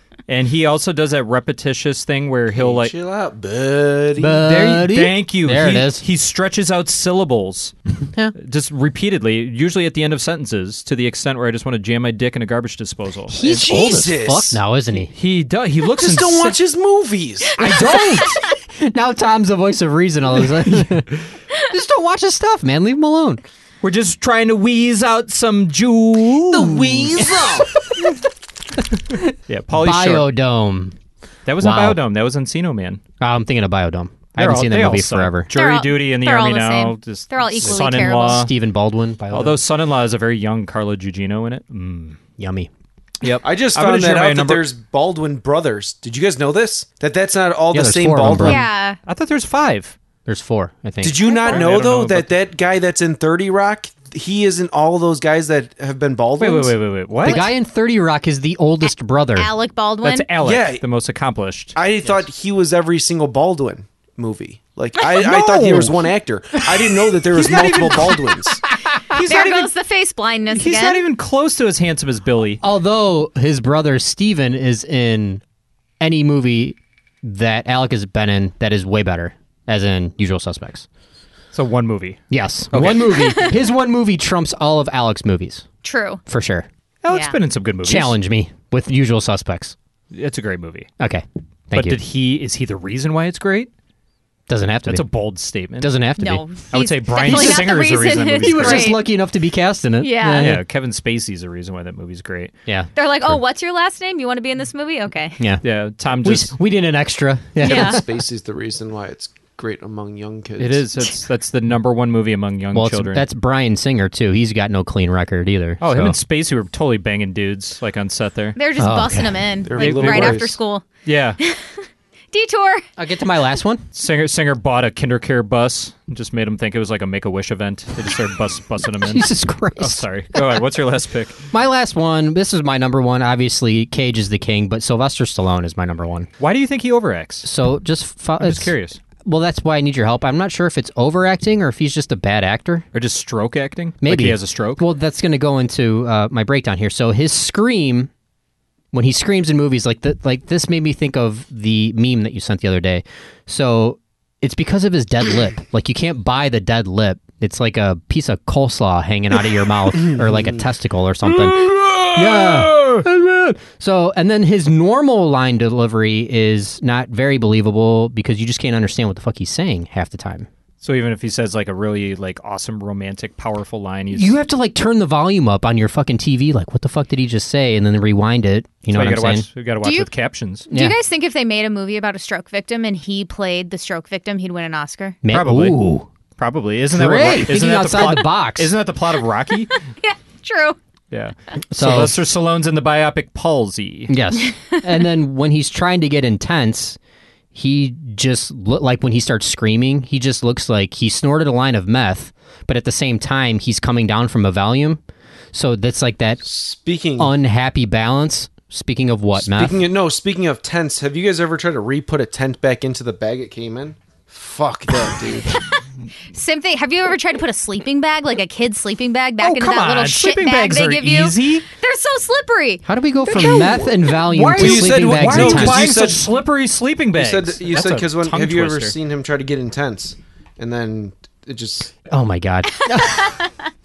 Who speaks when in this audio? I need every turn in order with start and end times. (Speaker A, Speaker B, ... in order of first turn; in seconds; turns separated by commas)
Speaker A: 0.3-2.9, Speaker B: 2.5-4.4, Speaker C: 4.2-6.0, Speaker A: 4.4-7.7, Speaker C: 8.0-8.3, Speaker A: 8.3-13.5, Speaker C: 13.3-15.1, Speaker B: 13.4-14.6, Speaker A: 15.1-16.6, Speaker B: 16.0-17.6, Speaker A: 17.6-18.3, Speaker C: 17.6-23.4, Speaker D: 17.8-18.3, Speaker A: 23.8-27.2, Speaker B: 26.5-27.7, Speaker C: 27.1-27.7, Speaker C: 29.1-30.9, Speaker A: 29.5-30.3, Speaker A: 31.5-33.0, Speaker C: 31.6-32.0, Speaker C: 33.2-35.5, Speaker A: 34.4-38.5, Speaker D: 35.5-38.5, Speaker C: 37.6-39.6, Speaker A: 39.3-42.2, Speaker C: 42.4-42.7, Speaker A: 43.2-44.7, Speaker B: 43.4-48.6, Speaker C: 47.7-48.7, Speaker D: 48.4-49.0, Speaker A: 49.1-50.0, Speaker C: 50.2-51.3, Speaker B: 51.0-56.8, Speaker D: 51.2-51.6, Speaker A: 51.5-52.4, Speaker A: 56.4-57.5, Speaker C: 57.2-59.5, Speaker D: 57.2-57.5, Speaker D: 59.4-60.3, Speaker A: 60.0-61.8, Speaker B: 60.4-60.8, Speaker B: 61.8-68.6, Speaker A: 65.0-66.1, Speaker A: 67.3-68.6, Speaker A: 69.1-69.7, Speaker D: 69.3-71.0, Speaker A: 70.5-72.6, Speaker C: 72.6-75.4, Speaker C: 76.0-80.9, Speaker A: 81.5-82.2, Speaker C: 82.3-85.7, Speaker A: 82.7-83.5, Speaker D: 83.1-83.5, Speaker D: 85.8-86.2, Speaker C: 86.3-86.7, Speaker A: 87.0-88.2, Speaker D: 87.1-87.4, Speaker C: 87.8-89.8, Speaker A: 90.1-90.9, Speaker C: 91.0-92.0, Speaker A: 91.7-93.7, Speaker C: 94.5-95.1, Speaker A: 94.9-95.9, Speaker C: 95.8-96.4, Speaker D: 96.2-99.0, Speaker A: 96.7-99.0, Speaker C: 97.2-97.8, Speaker C: 98.4-100.6, Speaker D: 100.0-100.6, Speaker A: 100.4-102.5, Speaker C: 102.7-103.4, Speaker D: 103.0-105.4, Speaker A: 105.6-106.5, Speaker C: 106.2-108.0, Speaker D: 107.6-108.0, Speaker B: 107.6-110.9, Speaker A: 110.6-113.3, Speaker C: 112.7-116.2, Speaker A: 115.8-118.6, Speaker D: 118.6-120.9, Speaker C: 118.8-119.6, Speaker B: 119.7-120.6, Speaker A: 119.8-120.5, Speaker A: 121.0-121.4, Speaker D: 121.4-122.8, Speaker C: 123.0-123.9, Speaker A: 123.9-129.2, Speaker C: 129.0-130.6, Speaker A: 129.8-131.4, Speaker C: 131.5-136.3, Speaker A: 136.4-137.5, Speaker C: 137.4-138.7, Speaker A: 138.4-139.0, Speaker C: 139.2-142.8, Speaker A: 142.9-144.8, Speaker C: 144.0-148.1, Speaker C: 148.9-170.5, Speaker A: 162.0-162.8, Speaker A: 170.8-174.3, Speaker C: 174.1-179.5, Speaker A: 178.9-180.7, Speaker D: 179.8-180.1, Speaker C: 180.7-181.0, Speaker D: 180.7-185.2, Speaker C: 185.2-186.1, Speaker A: 185.3-185.8, Speaker A: 186.4-189.7, Speaker C: 186.9-188.8, Speaker D: 190.0-190.8, Speaker A: 191.1-194.1, Speaker C: 191.7-192.2, Speaker C: 194.1-197.0, Speaker C: 197.5-205.0, Speaker C: 205.5-206.4, Speaker B: 206.4-207.3, Speaker C: 207.2-209.8, Speaker B: 209.4-215.6, Speaker D: 216.3-223.8, Speaker A: 219.4-221.7, Speaker C: 222.8-226.0, Speaker A: 224.2-228.9, Speaker B: 224.6-226.3, Speaker B: 227.2-231.9, Speaker C: 232.1-233.4